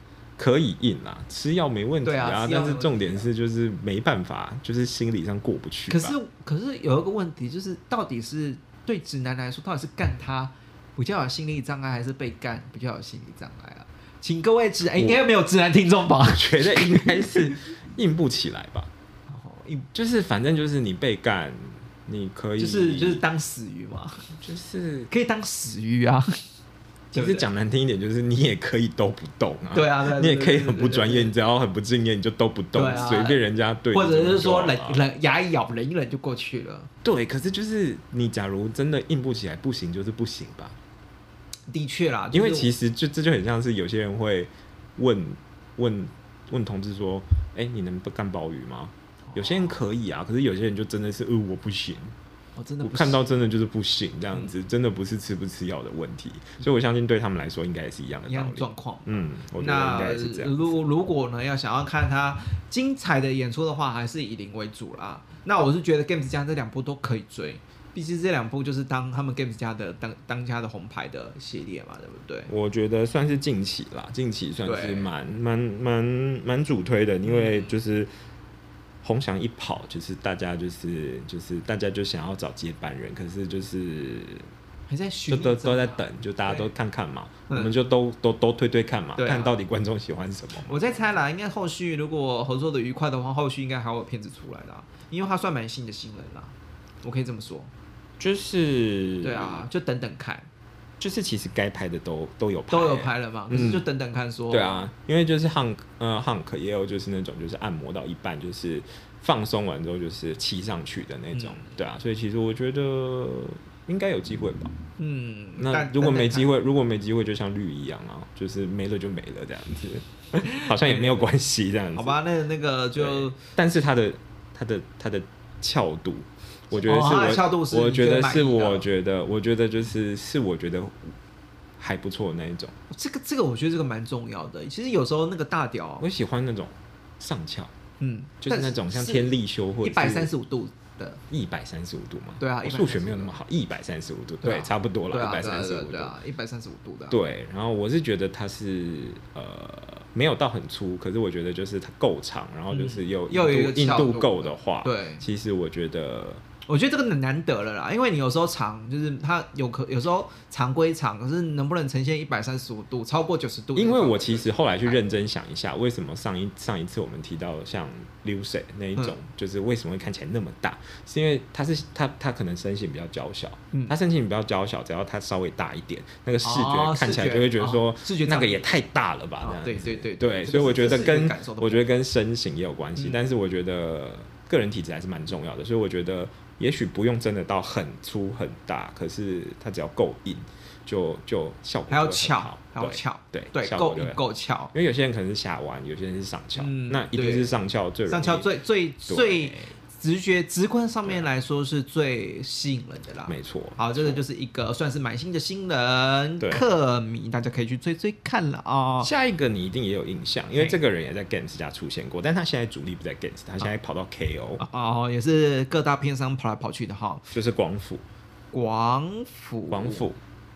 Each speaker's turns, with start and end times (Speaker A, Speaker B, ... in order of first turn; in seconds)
Speaker A: 0.4-6.2, 14.9-15.2, 16.2-18.9, 19.9-23.2, 24.4-25.1, 27.1-35.0, 37.0-40.8, 42.3-52.1, 52.8-60.8, 72.5-78.1, 79.0-84.5, 85.3-90.9, 98.2-99.6, 101.0-103.8, 104.5-114.7, 115.6-122.2, 123.0-131.1, 131.8-132.7, 136.0-137.7, 138.4-140.3, 141.3-146.1, 147.1-156.4, 163.7-198.5, 199.1-199.7, 203.3-204.2, 206.4-206.6, 209.0-214.6, 217.3-218.0, 219.7-220.2
Speaker B: 2.0-3.2, 5.9-17.3, 19.3-19.9, 22.6-24.3, 25.1-26.3, 27.1-27.4, 29.7-31.3, 32.7-33.4, 33.9-36.9, 41.7-42.7, 52.5-53.2, 58.3-72.5, 74.6-75.1, 77.2-77.7, 84.9-86.7, 89.2-89.5, 90.6-97.7, 99.2-100.5, 102.7-104.8, 111.3-111.7, 115.0-116.5, 120.6-121.2, 121.9-123.3, 126.7-128.8, 132.9-136.0, 138.0-141.2, 142.4-143.3, 144.4-147.2, 152.7-155.2, 156.7-165.1, 176.4-178.7, 179.4-181.8, 191.9-194.7, 196.6-197.5, 198.1-209.1, 214.6-217.2, 218.5-220.0